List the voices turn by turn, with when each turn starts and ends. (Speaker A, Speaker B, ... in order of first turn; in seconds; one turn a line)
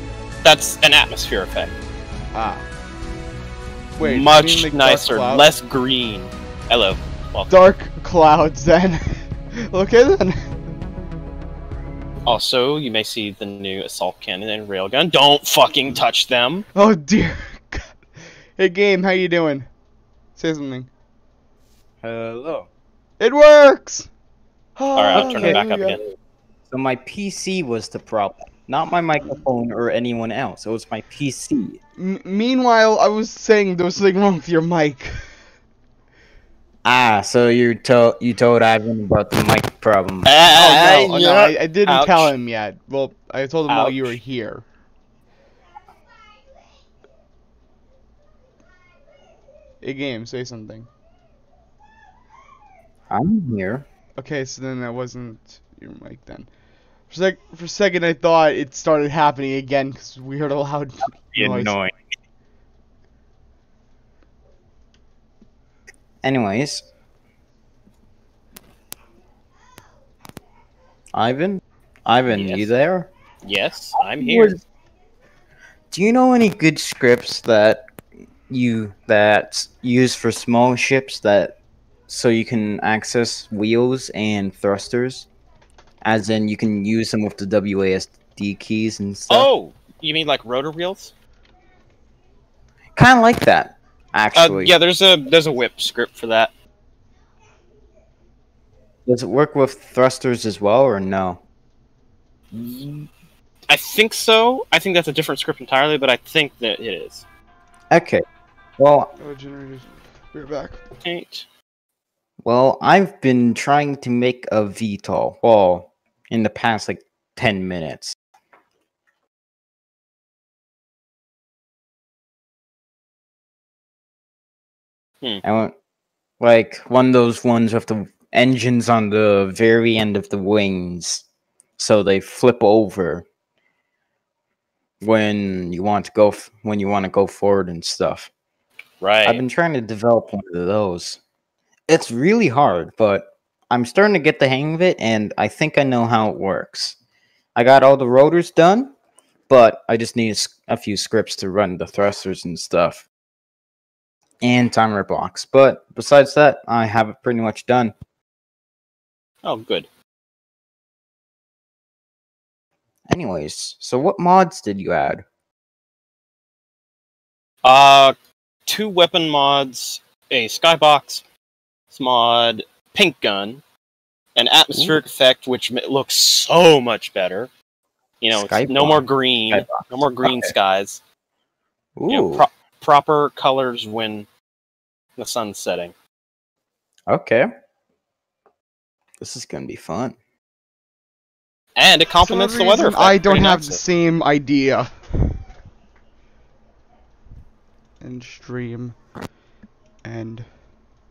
Speaker A: 0.4-1.7
Speaker B: 2.3-2.6
Speaker B: 4.0-5.5
Speaker A: 4.0-7.6
Speaker B: 7.5-9.0
Speaker B: 9.7-10.5
Speaker A: 12.3-16.6
Speaker B: 16.8-18.0
Speaker B: 18.6-19.7
Speaker B: 20.4-20.9
Speaker C: 22.0-22.7
Speaker B: 23.2-24.1
Speaker B: 24.8-26.0
Speaker A: 25.0-26.0
Speaker C: 25.1-25.6
Speaker C: 26.7-31.8
Speaker B: 32.0-35.2
Speaker C: 36.9-40.3
Speaker A: 40.2-42.3
Speaker B: 40.5-44.6
Speaker A: 43.7-44.1
Speaker B: 49.8-50.9
Speaker C: 53.1-53.9
Speaker B: 54.2-56.5
Speaker B: 57.1-61.8
Speaker C: 61.3-61.9
Speaker C: 66.2-66.9
Speaker C: 71.1-73.1
Speaker A: 72.3-72.7
Speaker A: 73.4-74.5
Speaker C: 74.2-74.6
Speaker C: 75.9-77.8
Speaker C: 78.5-81.6
Speaker C: 82.1-85.3
Speaker C: 86.0-89.5
Speaker A: 89.3-91.1
Speaker C: 93.0-94.7
Speaker A: 94.3-96.5
Speaker C: 99.1-101.4
Speaker A: 102.5-103.1
Speaker A: 103.7-107.2
Speaker C: 107.9-108.2
Speaker C: 108.8-109.1
Speaker B: 109.2-110.8
Speaker A: 111.0-111.5
Speaker C: 112.4-118.2
Speaker C: 125.4-125.7
Speaker C: 126.4-131.3
Speaker C: 131.8-133.3
Speaker C: 135.0-138.3
Speaker A: 139.0-139.4
Speaker C: 139.2-141.2
Speaker C: 141.9-147.0
Speaker C: 147.6-148.9
Speaker C: 149.5-153.1
Speaker C: 154.4-157.9
Speaker A: 159.4-159.9
Speaker C: 163.1-165.2
Speaker A: 167.6-168.2
Speaker A: 168.7-171.2
Speaker A: 171.9-173.6
Speaker A: 174.4-177.5
Speaker C: 174.7-175.0
Speaker A: 178.2-181.0
Speaker C: 178.3-180.5
Speaker C: 182.0-182.5
Speaker A: 182.1-184.3
Speaker A: 185.2-185.9
Speaker C: 187.1-187.5
Speaker C: 189.2-190.2
Speaker A: 191.8-193.8
Speaker B: 192.2-195.3
Speaker B: 198.0-199.0
Speaker B: 200.0-200.5